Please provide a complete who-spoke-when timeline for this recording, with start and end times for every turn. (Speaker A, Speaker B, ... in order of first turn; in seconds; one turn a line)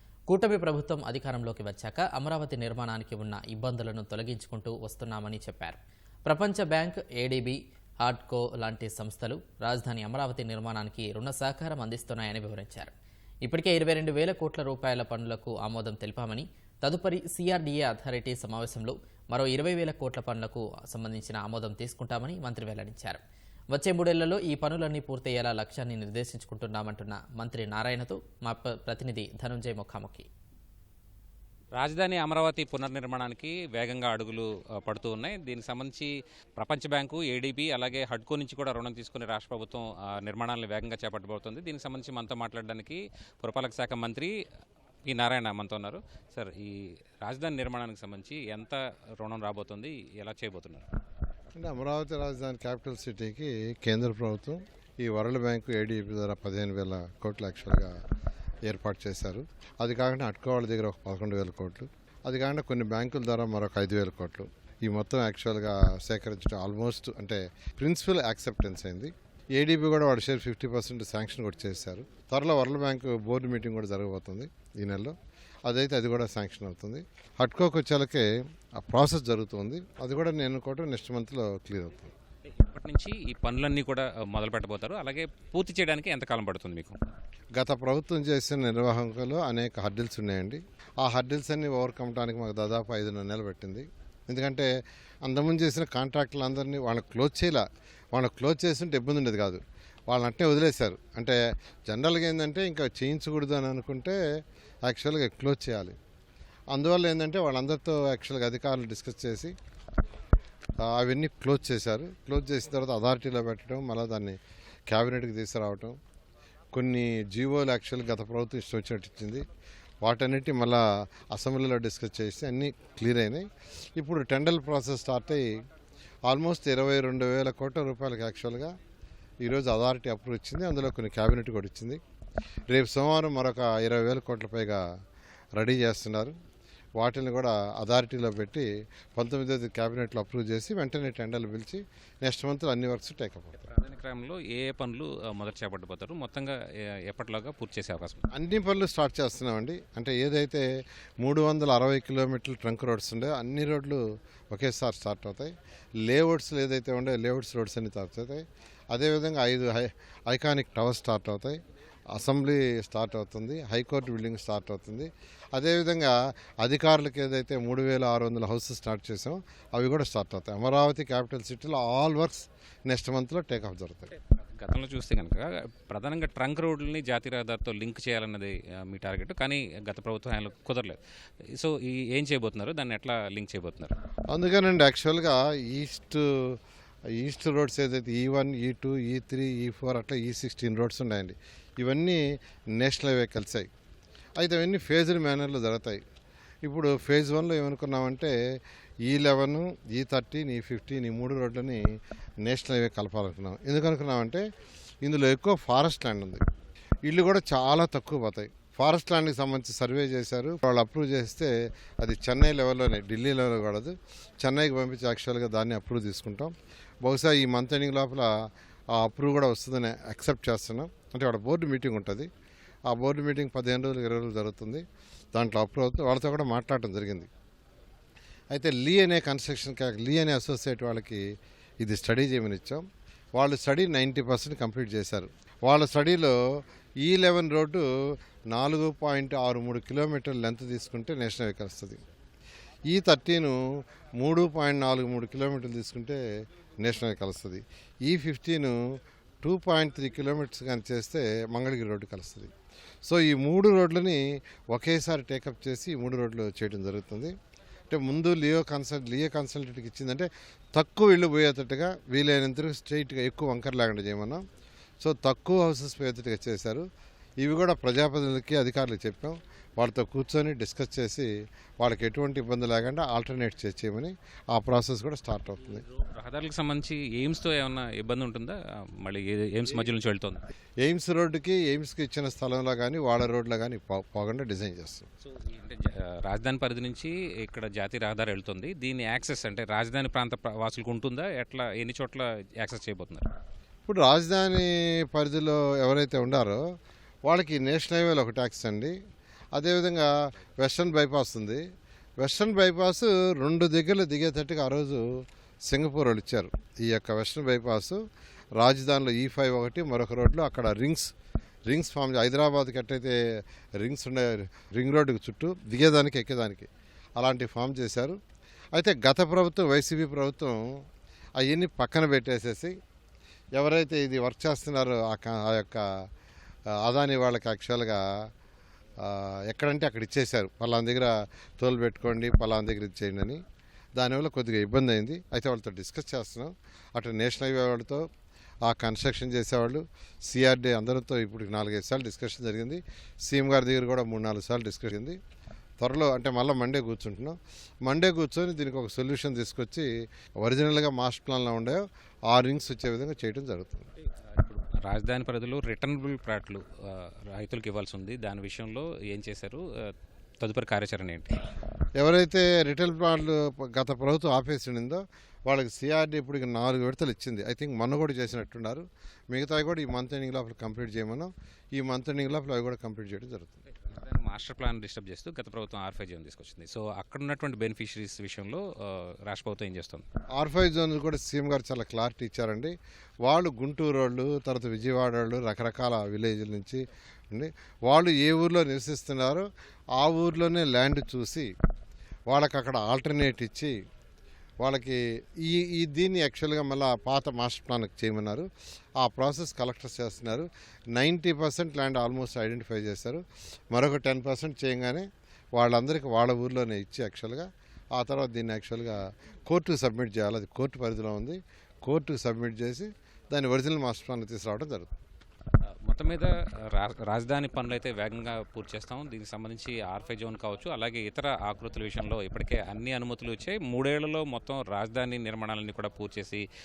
Speaker A: 0.3-12.9
Speaker A: 13.4-30.3
Speaker B: 31.8-44.3
Speaker B: 45.1-50.9
Speaker C: 51.5-58.0
Speaker C: 58.7-75.2
Speaker C: 75.7-82.1
Speaker B: 82.6-87.0
Speaker C: 87.6-94.7
Speaker C: 95.2-104.2
Speaker C: 104.9-106.0
Speaker C: 106.7-109.5
Speaker C: 110.8-116.0
Speaker C: 116.7-119.4
Speaker C: 120.0-125.6
Speaker C: 126.3-128.7
Speaker C: 129.4-132.0
Speaker C: 132.7-134.8
Speaker C: 135.6-136.3
Speaker C: 137.0-143.7
Speaker B: 143.7-148.3
Speaker C: 148.3-150.7
Speaker C: 151.2-155.5
Speaker C: 156.0-161.6
Speaker C: 162.1-174.1
Speaker B: 174.6-181.0
Speaker B: 181.5-183.9
Speaker C: 184.3-186.6
Speaker C: 187.2-192.2
Speaker C: 192.8-193.7
Speaker C: 194.4-196.0
Speaker C: 196.6-198.3
Speaker C: 199.1-201.8
Speaker C: 202.4-204.4
Speaker C: 205.0-206.4
Speaker C: 207.1-218.3
Speaker C: 218.9-222.3
Speaker C: 222.9-224.8
Speaker C: 225.3-227.3
Speaker C: 228.5-231.2
Speaker C: 231.8-232.8
Speaker C: 233.4-236.4
Speaker C: 237.0-237.9
Speaker C: 238.5-242.0
Speaker C: 242.9-243.6
Speaker C: 244.2-246.2
Speaker C: 246.8-252.5
Speaker C: 253.1-257.3
Speaker C: 257.9-264.4
Speaker C: 265.0-266.9
Speaker C: 267.4-275.9
Speaker B: 275.9-280.4
Speaker C: 280.8-285.1
Speaker B: 285.3-293.3
Speaker C: 293.9-296.6
Speaker C: 297.3-299.0
Speaker C: 299.5-301.6
Speaker C: 302.2-305.1
Speaker C: 305.7-308.0
Speaker C: 308.6-311.1
Speaker C: 311.7-313.2
Speaker C: 313.8-318.2
Speaker C: 318.7-320.8
Speaker C: 321.4-322.8
Speaker C: 323.6-325.9
Speaker C: 326.7-328.0
Speaker C: 329.0-333.4
Speaker C: 334.0-338.1
Speaker C: 338.6-345.2
Speaker C: 345.8-349.9
Speaker C: 350.4-353.9
Speaker B: 354.2-359.6
Speaker B: 360.4-361.4
Speaker C: 362.0-373.6
Speaker B: 373.8-380.1
Speaker C: 380.4-391.5
Speaker C: 392.3-393.8
Speaker C: 394.6-398.5
Speaker C: 399.0-414.9
Speaker B: 415.9-426.4